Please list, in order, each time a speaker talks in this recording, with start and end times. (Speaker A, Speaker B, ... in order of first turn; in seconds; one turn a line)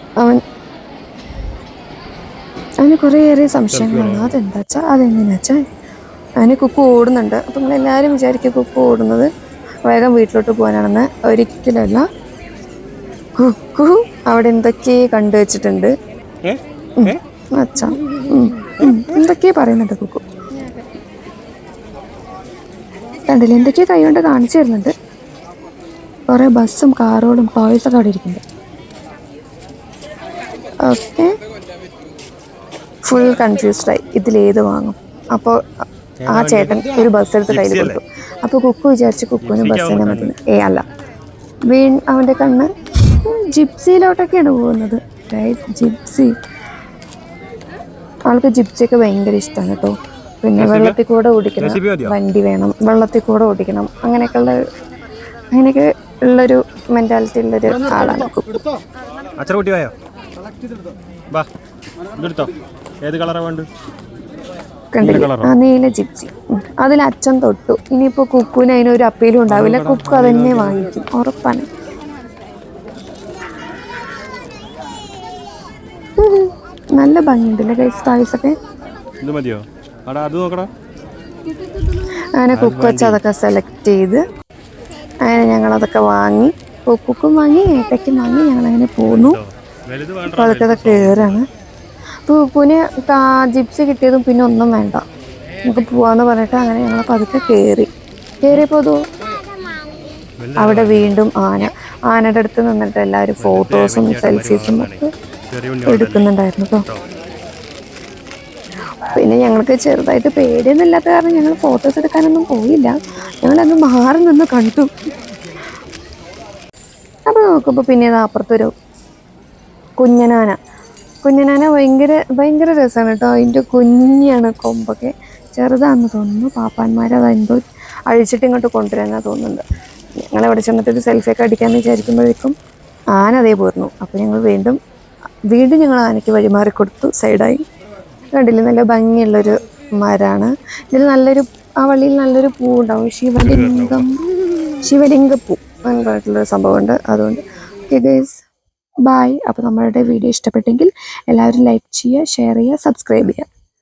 Speaker A: 2.8-5.6
Speaker B: 3.7-4.4
Speaker A: 6.4-9.3
Speaker A: 9.8-12.1
Speaker A: 13.4-15.9
Speaker B: 16.4-17.2
Speaker A: 17.0-20.2
Speaker A: 23.3-24.9
Speaker A: 26.3-28.4
Speaker A: 30.9-31.3
Speaker A: 33.0-35.6
Speaker B: 36.2-38.0
Speaker A: 36.3-40.9
Speaker B: 39.4-40.3
Speaker A: 41.7-46.3
Speaker A: 48.3-54.6
Speaker B: 50.6-51.0
Speaker B: 51.6-52.2
Speaker A: 55.5-58.6
Speaker B: 59.4-59.9
Speaker B: 62.2-62.5
Speaker B: 63.0-63.7
Speaker A: 64.9-71.7
Speaker B: 65.0-65.5
Speaker B: 69.5-70.9
Speaker A: 76.2-78.5
Speaker B: 79.2-80.7
Speaker A: 82.4-84.2
Speaker B: 82.5-83.2
Speaker A: 85.2-89.4
Speaker B: 89.0-91.4
Speaker A: 90.3-91.5
Speaker A: 92.3-95.0
Speaker A: 95.7-97.9
Speaker A: 98.4-99.0
Speaker B: 100.4-101.2
Speaker A: 100.6-105.1
Speaker B: 103.4-106.3
Speaker A: 105.9-106.9
Speaker A: 109.1-114.9
Speaker A: 117.3-118.7
Speaker A: 120.0-120.6
Speaker A: 121.2-129.6
Speaker A: 130.3-132.6
Speaker A: 133.2-134.8
Speaker A: 135.5-137.6
Speaker A: 138.3-144.2
Speaker B: 143.4-144.1
Speaker A: 144.8-148.4
Speaker A: 149.1-153.5